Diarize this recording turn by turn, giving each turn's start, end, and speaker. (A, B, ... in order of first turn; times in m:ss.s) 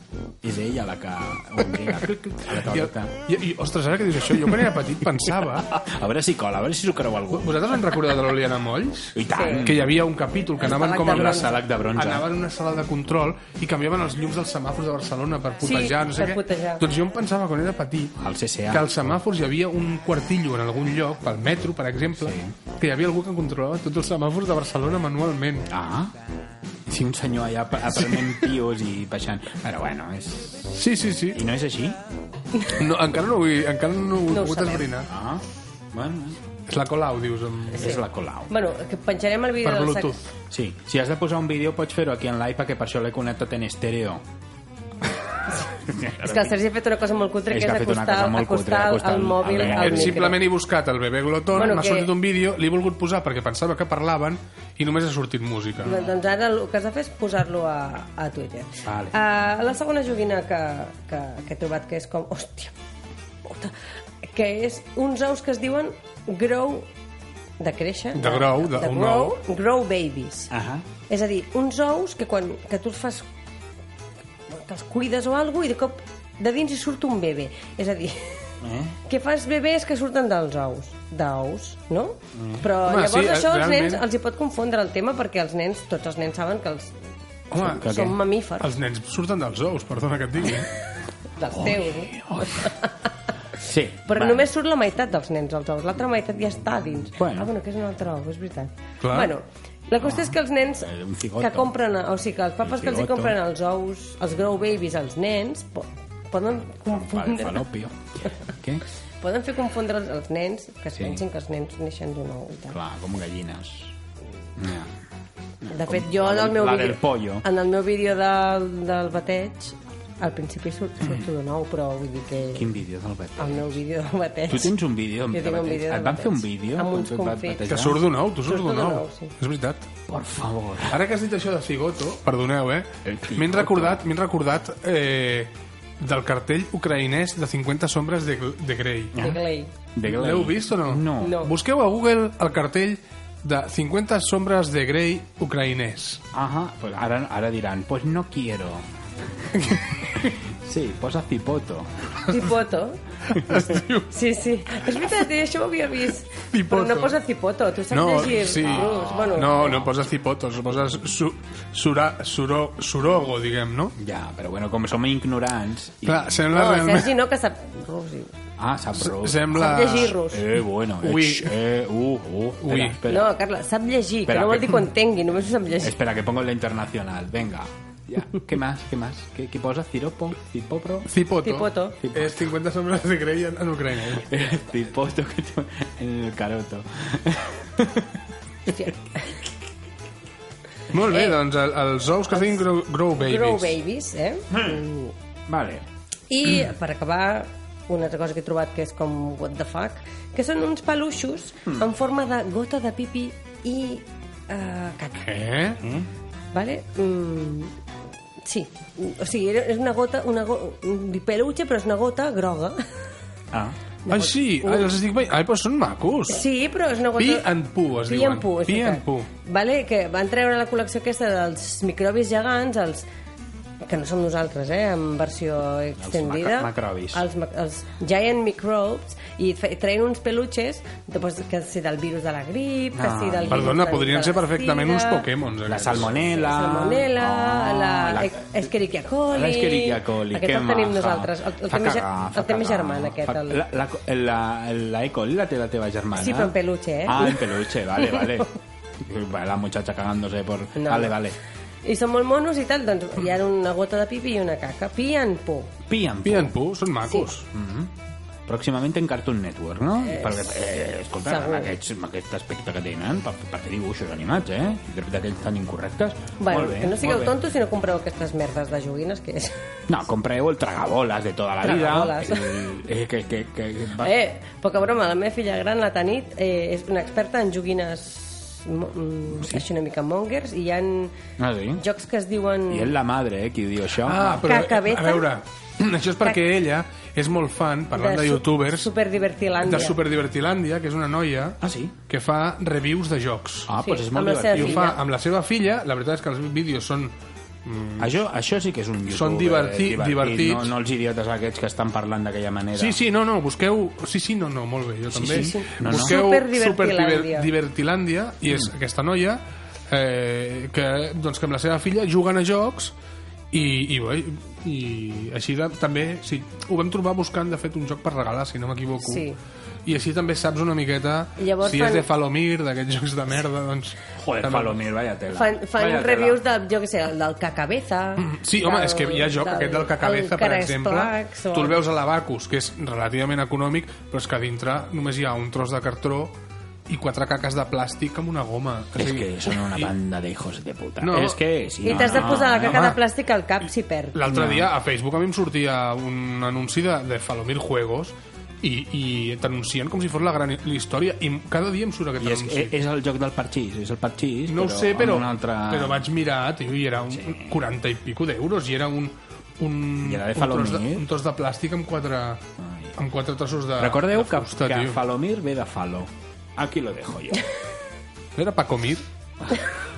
0:00.4-0:03.1 A
0:02.5-0:05.7 B
0:05.7-0:08.0 A
0:07.3-0:18.2 B
0:09.1-0:10.0 A
0:09.3-0:09.6 C
0:10.6-0:11.6 C
0:11.0-0:12.2 A
0:15.6-0:16.8 C
0:18.2-0:18.9 A
0:18.7-0:25.7 B
0:22.1-0:22.5 A
0:25.7-0:26.1 A
0:26.9-0:32.0 A
0:30.7-0:31.4 B
0:32.7-0:35.1 B
0:34.3-0:34.8 C
0:35.0-0:36.4 A
0:36.7-0:38.0 B
0:37.8-0:38.5 A
0:37.8-0:40.2 C
0:39.6-0:40.2 B
0:40.5-0:44.2 A
0:45.8-0:46.5 A
0:46.2-0:50.4 C
0:47.5-0:50.3 A
0:49.5-0:56.0 B
0:51.6-0:52.1 C
0:55.8-1:02.7 C
0:55.8-0:56.1 A
0:58.8-0:59.1 A
1:03.4-1:06.9 C
1:07.6-1:10.5 C
1:08.1-1:09.4 B
1:10.5-1:10.8 A
1:11.1-1:13.2 C
1:14.5-1:18.4 C
1:18.6-1:19.0 A
1:19.1-1:26.9 C
1:22.3-1:22.6 A
1:22.8-1:24.0 B
1:27.5-1:28.0 B
1:27.5-1:28.2 A
1:27.7-1:28.7 C
1:28.6-1:30.7 B
1:31.4-1:33.1 C
1:31.5-1:32.7 A
1:33.6-1:34.5 A
1:34.0-1:47.6 C
1:37.1-1:37.5 A
1:39.0-1:39.3 B
1:40.0-1:41.7 A
1:42.6-1:43.4 A
1:46.8-1:48.8 A
1:49.2-1:52.8 C
1:51.0-1:51.2 A
1:52.7-1:53.9 A
1:54.6-1:54.9 A
1:55.6-1:57.4 A
1:55.7-2:02.7 C
2:02.5-2:03.8 A
2:03.4-2:04.7 C
2:04.5-2:08.0 A
2:05.3-2:07.7 C
2:07.7-2:09.9 B
2:08.4-2:09.3 C
2:10.1-2:11.0 A
2:10.9-2:19.2 B
2:13.0-2:14.0 A
2:19.1-2:19.4 A
2:19.2-2:19.7 C
2:19.9-2:21.4 A
2:20.0-2:26.2 B
2:21.2-2:21.5 C
2:26.3-2:28.9 A
2:29.4-2:32.2 A
2:32.3-2:33.0 C
2:33.3-2:34.1 B
2:34.1-2:39.8 C
2:36.5-2:37.2 B
2:37.9-2:43.9 B
2:38.4-2:39.9 A
2:44.0-2:46.4 A
2:46.0-2:47.1 B
2:46.5-2:48.3 C
2:48.6-2:53.4 A
2:49.0-2:50.2 B
2:49.5-2:50.4 C
2:51.0-2:51.6 B
2:52.6-2:53.0 B
2:53.1-2:55.9 C
2:54.3-2:54.9 A
2:55.8-3:01.1 A
3:01.1-3:04.3 B
3:01.4-3:02.0 C
3:02.0-3:02.5 A
3:04.2-3:08.9 A
3:08.7-3:09.3 C
3:10.9-3:13.8 B
3:11.1-3:11.4 C
3:12.3-3:12.6 C
3:13.2-3:15.1 C
3:14.5-3:14.8 A
3:15.5-3:15.8 A
3:16.3-3:25.3 C
3:25.2-3:26.0 B
3:26.5-3:27.7 C
3:28.4-3:32.8 C
3:34.0-3:34.9 C
3:34.1-3:36.4 B
3:36.3-3:37.5 C
3:37.2-3:39.3 B
3:38.0-3:43.0 C
3:43.8-3:55.2 C
3:46.0-3:47.2 A
3:52.9-3:53.8 A
3:53.5-3:56.1 B
3:55.6-3:58.6 A
3:56.1-4:03.6 C
3:59.3-4:11.4 A
4:06.1-4:07.5 C
4:10.8-4:11.2 C
4:11.8-4:15.7 C
4:15.9-4:16.5 A
4:16.2-4:17.5 B
4:17.5-4:17.9 A
4:18.5-4:27.4 A
4:20.0-4:20.5 C
4:21.2-4:21.7 C
4:26.4-4:29.6 C
4:29.9-4:34.1 A
4:31.6-4:32.6 C
4:34.0-4:41.1 C
4:39.3-4:39.6 A
4:41.4-4:41.8 A
4:41.8-4:42.9 C
4:42.7-4:44.5 A
4:44.0-4:48.9 B
4:44.4-4:45.3 C
4:47.9-4:49.9 C
4:49.6-4:53.7 B
4:51.6-4:52.0 A
4:53.7-4:54.9 A
4:53.8-4:55.0 C
4:54.5-4:58.1 B
4:58.0-5:03.0 A
4:59.1-5:00.7 B
5:02.8-5:12.9 B
5:05.1-5:06.2 A
5:05.3-5:07.5 C
5:13.5-5:19.2 B
5:19.0-5:19.4 C
5:19.8-5:24.8 B
5:21.4-5:22.0 C
5:24.2-5:26.4 A
5:25.3-5:31.8 C
5:28.2-5:36.4 B
5:36.9-5:39.9 B
5:38.9-5:42.9 A
5:41.0-5:43.0 B
5:41.8-5:44.2 C
5:44.1-5:52.8 B
5:44.2-5:44.7 A
5:52.2-5:56.0 A
5:54.5-6:02.4 B
5:57.1-5:57.6 A
6:00.0-6:01.1 A
6:02.6-6:02.9 A
6:03.0-6:05.0 B
6:03.8-6:07.5 A
6:08.4-6:09.0 B